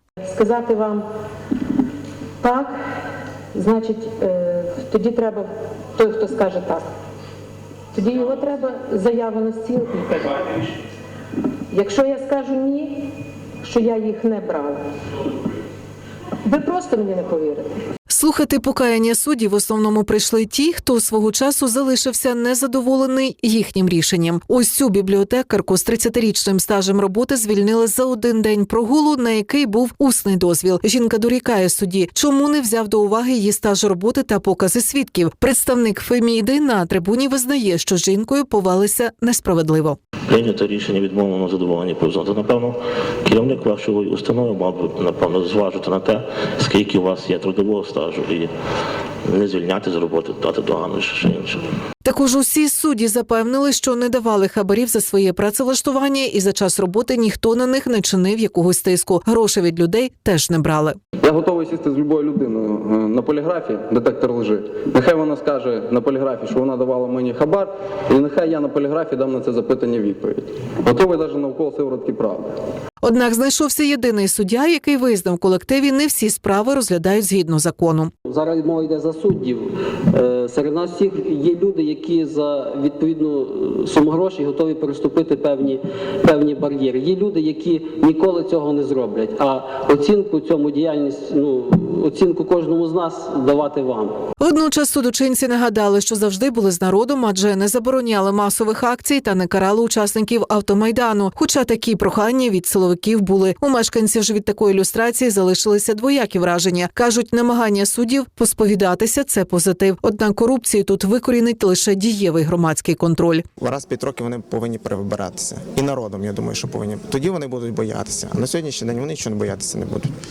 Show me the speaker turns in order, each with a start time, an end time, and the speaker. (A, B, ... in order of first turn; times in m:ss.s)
0:00.3-0:01.0 A
0:02.4-0:02.7 A
0:03.5-0:06.8 A
0:07.9-0:10.7 A
0:11.7-0:13.1 A
0:13.6-0:14.8 A
0:16.4-0:17.7 A
0:18.1-0:40.0 B
0:40.3-0:48.5 C
0:49.3-0:51.6 C
0:52.0-1:01.0 B
1:01.2-1:12.6 D
1:13.0-1:18.1 B
1:18.2-1:34.2 E
1:34.4-1:53.4 B
1:53.6-2:00.1 F